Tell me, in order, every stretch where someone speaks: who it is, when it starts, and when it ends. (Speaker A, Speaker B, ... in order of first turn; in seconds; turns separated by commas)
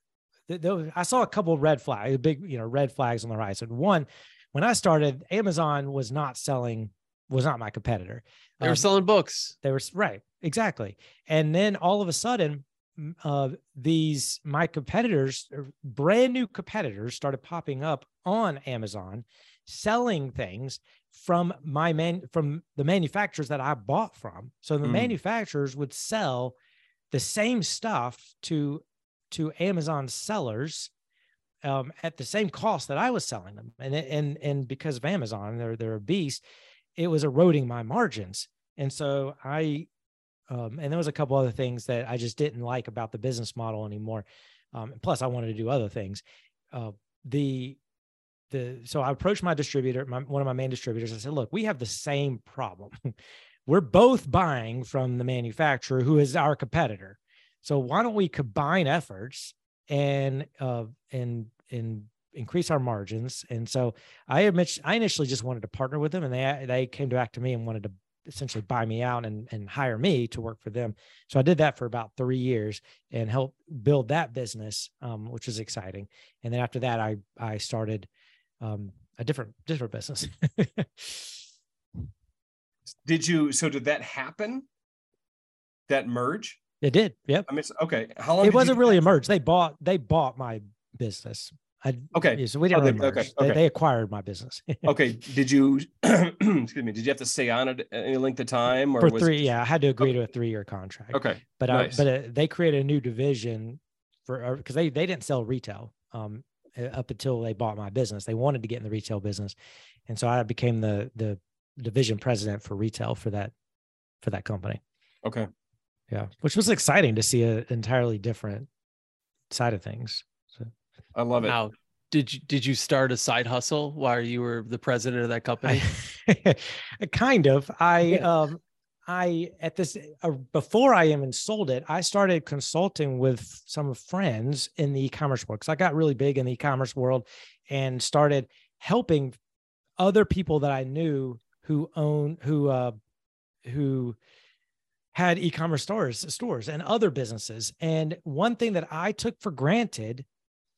Speaker A: 0.5-8.9, Speaker B: 8.6-9.5, Speaker A: 9.6-26.6, Speaker C: 24.8-25.1, Speaker A: 27.1-30.9, Speaker A: 31.6-36.4, Speaker A: 37.0-39.9, Speaker A: 40.5-46.2, Speaker A: 46.7-47.8, Speaker A: 48.5-53.1, Speaker A: 53.7-78.1, Speaker A: 78.6-81.4, Speaker C: 83.0-84.7, Speaker C: 85.9-86.6, Speaker A: 86.8-87.5, Speaker C: 87.5-89.1, Speaker A: 88.4-94.9, Speaker C: 92.1-93.6, Speaker C: 94.8-99.4, Speaker A: 99.0-109.5, Speaker C: 101.1-102.0, Speaker A: 110.1-113.5, Speaker A: 114.2-114.8, Speaker C: 115.2-115.5, Speaker A: 116.1-118.7, Speaker A: 119.5-120.7, Speaker C: 121.1-121.5, Speaker B: 121.4-125.9, Speaker A: 125.6-139.4, Speaker A: 140.0-142.9, Speaker A: 143.6-144.2, Speaker A: 145.1-150.2